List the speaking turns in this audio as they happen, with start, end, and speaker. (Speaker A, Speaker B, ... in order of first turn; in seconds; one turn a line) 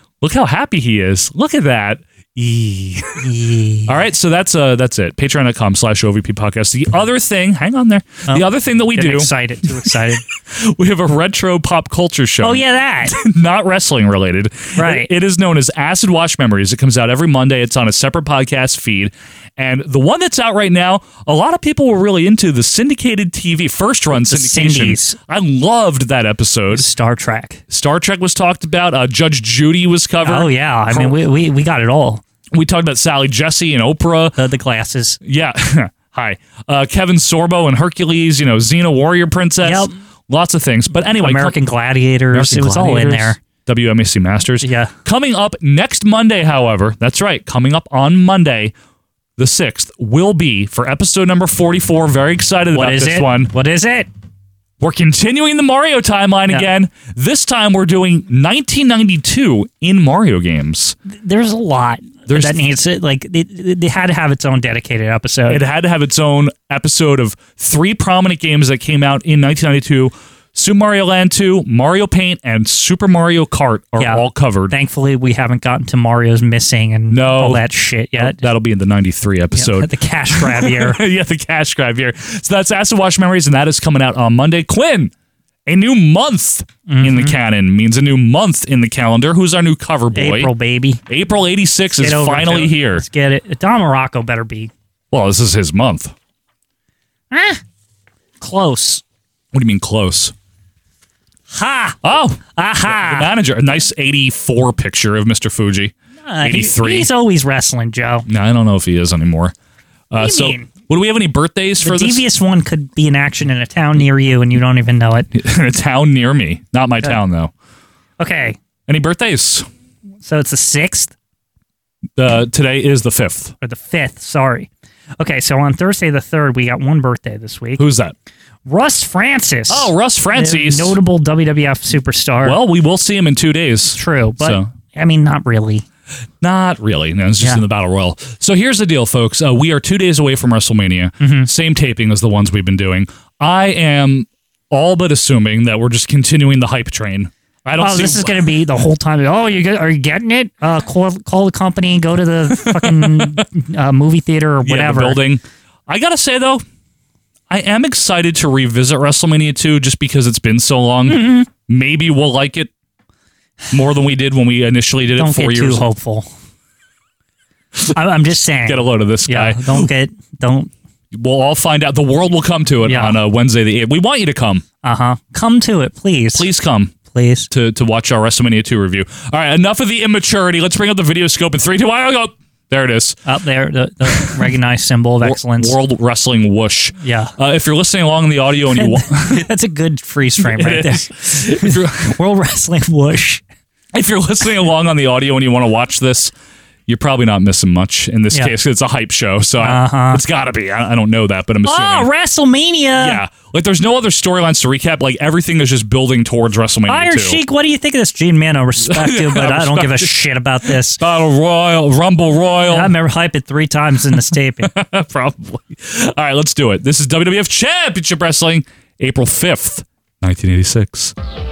Speaker A: 0.2-3.2
Speaker B: 3.2-4.0
Speaker A: 3.9-9.3
Speaker B: 8.3-10.2
Speaker A: 10.5-26.9
Speaker B: 12.4-13.1
Speaker B: 14.8-15.1
Speaker B: 24.1-25.1
Speaker B: 26.7-27.6
Speaker A: 27.7-31.2
Speaker B: 30.2-32.2
Speaker A: 32.5-34.4
Speaker B: 34.4-35.2
Speaker A: 35.2-41.6
Speaker B: 39.6-39.9
Speaker B: 41.1-43.4
Speaker A: 42.3-48.7
Speaker B: 44.6-44.9
Speaker A: 49.4-53.5
Speaker B: 52.8-54.1
Speaker A: 54.8-60.9
Speaker B: 61.1-65.6
Speaker A: 62.3-62.6
Speaker A: 65.5-74.7
Speaker B: 74.0-78.4
Speaker A: 77.1-77.6
Speaker A: 78.2-85.1
Speaker B: 79.5-81.0
Speaker A: 85.7-90.5
Speaker B: 86.9-87.3
Speaker B: 90.1-91.0
Speaker A: 91.1-93.0
Speaker B: 92.0-94.7
Speaker A: 95.1-96.1
Speaker B: 97.3-97.6
Speaker B: 98.4-99.0
Speaker A: 99.5-100.3
Speaker B: 101.5-102.0
Speaker A: 102.0-107.1
Speaker B: 102.5-103.3
Speaker B: 106.2-108.2
Speaker A: 108.3-109.5
Speaker A: 110.1-112.2
Speaker B: 110.2-110.7
Speaker B: 111.8-115.3
Speaker A: 115.3-117.5
Speaker B: 118.2-118.6
Speaker A: 118.9-119.7
Speaker B: 120.2-121.1
Speaker A: 122.2-123.5
Speaker B: 123.6-127.8
Speaker A: 127.8-128.1
Speaker B: 128.7-132.6
Speaker A: 129.7-130.9
Speaker A: 132.4-134.7
Speaker B: 133.9-135.8
Speaker A: 136.4-148.4
Speaker B: 141.2-141.5
Speaker B: 147.8-155.2
Speaker A: 152.5-153.4
Speaker A: 154.6-156.6
Speaker A: 157.5-162.7
Speaker B: 161.1-161.5
Speaker A: 163.7-165.9
Speaker B: 165.2-166.3
Speaker B: 167.9-170.7
Speaker A: 168.7-169.9
Speaker A: 171.1-174.6
Speaker B: 172.8-173.2
Speaker B: 174.8-176.5
Speaker A: 176.3-176.9
Speaker B: 177.1-177.5
Speaker A: 177.5-183.2
Speaker B: 183.2-185.8
Speaker A: 184.1-184.5
Speaker A: 185.2-189.4
Speaker B: 187.0-187.3
Speaker B: 188.7-193.4
Speaker A: 190.4-192.1
Speaker A: 193.9-196.3
Speaker A: 196.9-202.1
Speaker B: 199.6-200.2
Speaker B: 201.7-203.2
Speaker A: 202.9-207.4
Speaker B: 206.9-211.0
Speaker A: 208.8-210.1
Speaker A: 211.0-212.9
Speaker B: 212.7-214.7
Speaker A: 214.6-221.1